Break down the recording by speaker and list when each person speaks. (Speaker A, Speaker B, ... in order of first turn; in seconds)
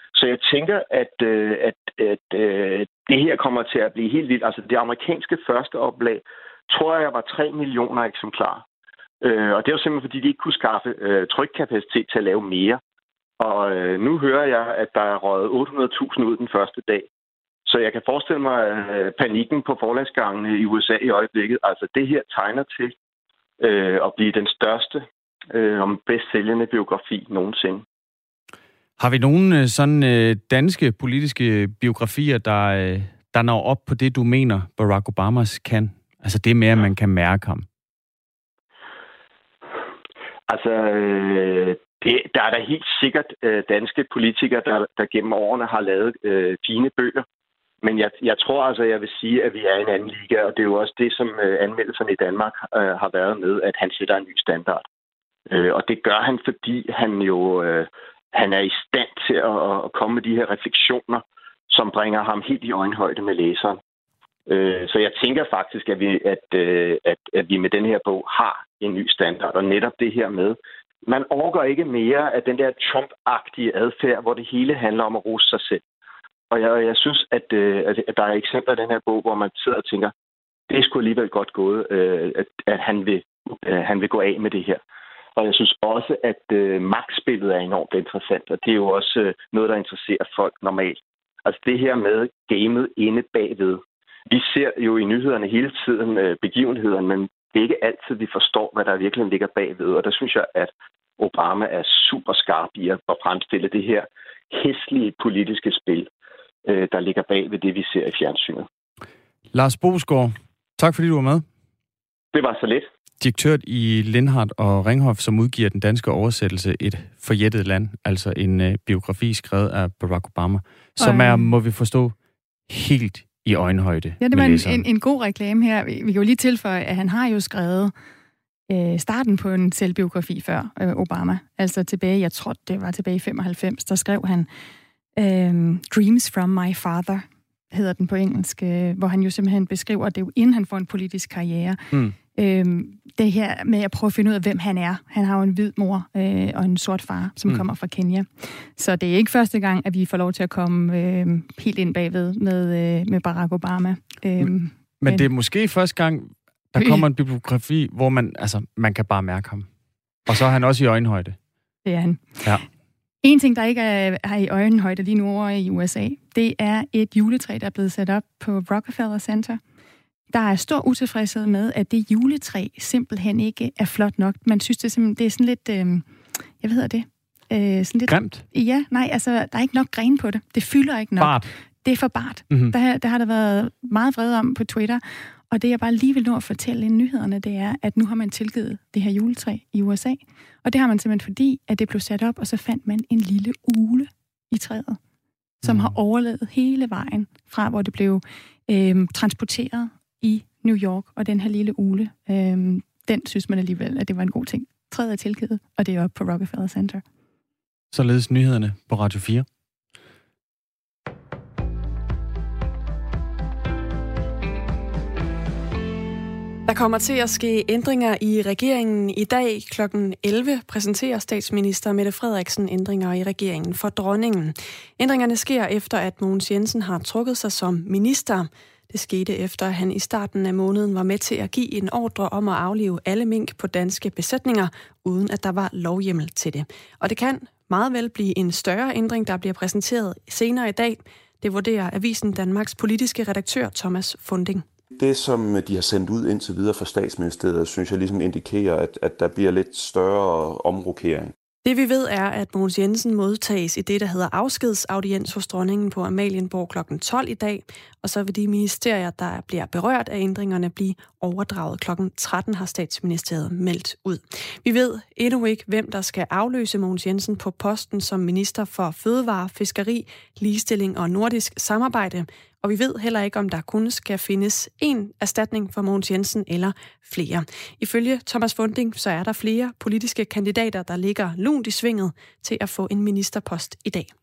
Speaker A: 0.1-8.6, 9.2-12.8, 13.4-17.1, 17.6-22.9, 23.6-27.9, 40.5-47.2, 47.8-54.9, 55.5-63.8, 64.5-75.8, 76.5-80.1, 80.7-84.8, 85.4-106.1, 106.7-108.7, 112.3-112.9
Speaker B: 29.0-37.6, 109.5-111.4, 113.2-122.1, 122.7-124.8, 155.0-159.7, 160.3-161.4, 178.1-178.4, 181.2-181.5, 182.5-182.7, 195.6-195.9, 207.9-209.4
Speaker C: 121.0-121.5, 124.2-127.9, 128.7-134.5, 135.2-155.3, 156.8-157.1, 161.9-162.6, 163.2-169.6, 170.3-176.1, 176.6-195.0, 195.6-207.0
Speaker D: 216.7-244.6, 251.6-284.1
Speaker E: 244.9-251.3